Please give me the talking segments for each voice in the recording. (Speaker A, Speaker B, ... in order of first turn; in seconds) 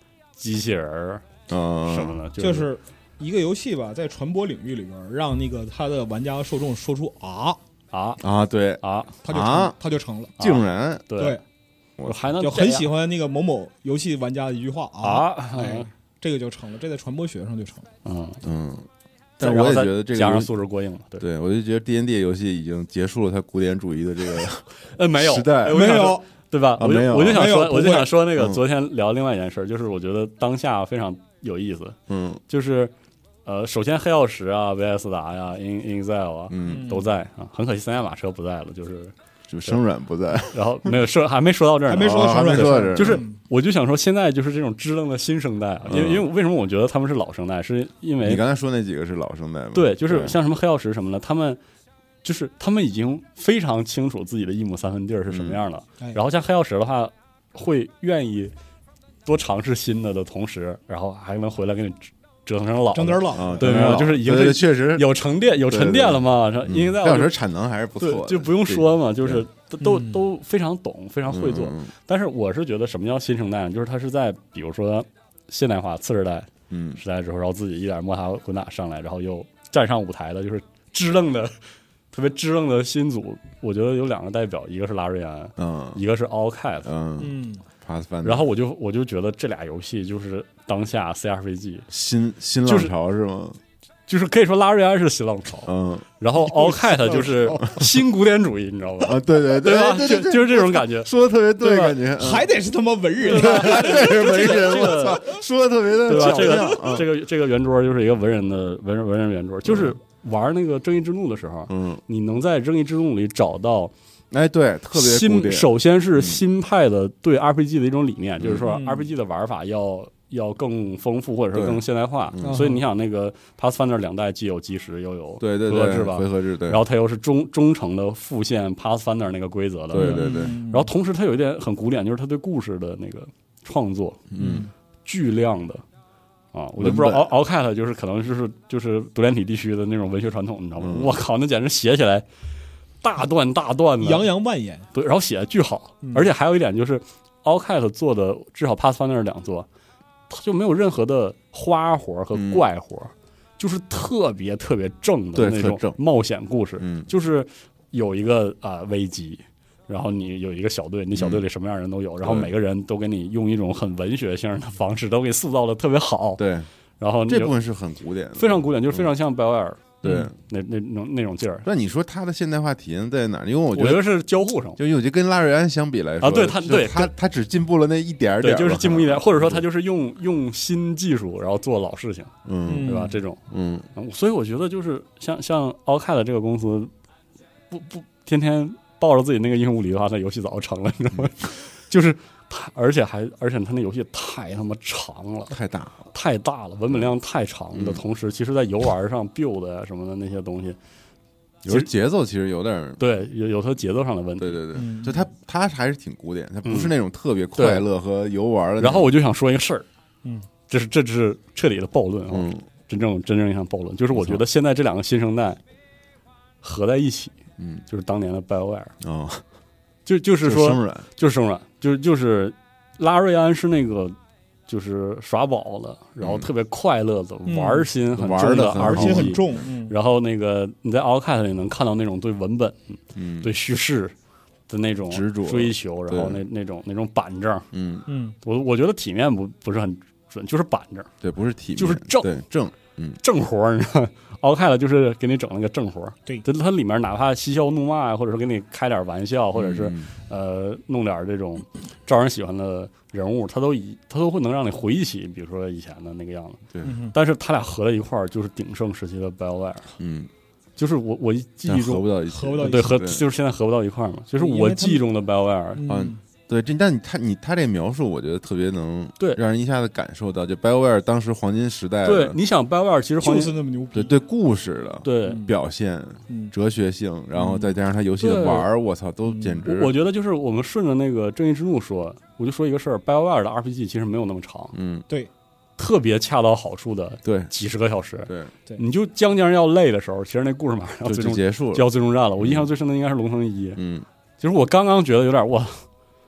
Speaker A: 0.4-1.2, 1.9-2.7, 7.9-8.2, 8.8-9.2, 10.4-11.4, 12.1-12.9, 15.0-15.9, 18.1-18.4, 19.4-21.2, 24.9-32.0, 32.5-32.9, 33.5-39.1, 40.5-48.4, 49.7-51.6, 52.2-58.5, 59.2-67.3, 68.0-81.6, 82.1-86.9, 88.2-91.9, 92.7-92.9, 94.1-102.0, 103.2-105.3, 106.0-113.9, 114.9-134.3, 135.1-135.8, 136.5-142.3, 143.0-144.3, 144.9-149.7, 150.3-166.4, 167.0-167.6, 168.4-171.7, 173.7-174.8, 176.2-177.1, 178.4-183.4, 183.9-186.9, 187.7-195.6, 196.1-200.8, 203.0-204.6, 206.7-206.9, 207.6-207.8, 208.8-209.9, 210.7-215.6, 216.6-217.4, 217.9-218.9, 220.1-224.2, 224.7-234.1, 234.7-237.7, 238.4-241.1, 241.8-242.3, 243.2-259.9, 260.8-262.1, 262.6-265.8, 272.0-273.5, 275.0-275.4, 278.2-278.7, 279.6-284.8, 285.8-293.8, 294.4-295.9
Speaker B: 1.5-2.2, 8.2-9.8, 10.4-11.1, 18.4-18.9, 19.4-20.5, 21.2-25.8, 26.8-27.6, 28.4-28.6, 32.1-32.4, 36.5-36.9, 39.5-40.9, 42.0-43.2, 45.9-46.3, 48.2-50.4, 55.3-55.6, 63.3-65.1, 65.7-69.5, 71.3-71.9, 76.7-77.0, 85.6-86.0, 86.8-88.5, 91.9-93.6, 95.7-96.1, 99.0-102.5, 103.2-107.1, 109.7-110.0, 111.7-112.0, 114.3-116.4, 118.4-118.8, 121.5-122.6, 125.4-126.8, 129.9-130.6, 134.3-134.7, 136.8-137.3, 140.8-141.2, 152.3-152.6, 155.3-156.0, 156.8-157.1, 161.2-161.4, 162.2-162.5, 166.4-166.7, 167.3-169.1, 170.0-170.3, 171.7-174.1, 174.8-179.6, 182.4-183.9, 195.5-196.1, 197.7-198.0, 201.7-203.0, 204.4-209.1, 212.3-212.7, 214.1-214.4, 217.6-217.8, 219.0-219.4, 220.4-221.1, 226.2-226.5, 228.1-229.6, 233.2-233.5, 235.1-236.4, 237.7-238.1, 241.2-243.2, 249.6-250.1, 260.0-260.3, 261.6-263.2, 265.9-272.4, 273.9-279.9, 284.7-285.1, 287.2-287.5, 288.3-288.5, 291.1-291.9, 292.4-292.7, 293.8-294.1
Speaker C: 2.4-7.6, 9.2-10.4, 11.2-11.4, 12.4-17.9, 25.7-26.3, 27.3-28.1, 36.6-37.1, 41.9-43.4, 62.9-64.0, 69.8-70.2, 87.2-87.6, 96.6-97.8, 102.2-105.4, 106.1-107.0, 118.7-119.1, 122.4-122.8, 129.9-130.9, 134.4-134.7, 144.0-144.9, 146.0-146.3, 182.7-183.2, 204.7-205.3, 227.5-230.0, 238.1-238.4, 256.8-257.2, 262.3-263.0, 264.4-265.1, 265.8-266.2, 273.2-274.1, 275.2-275.5, 277.4-277.7, 279.3-279.6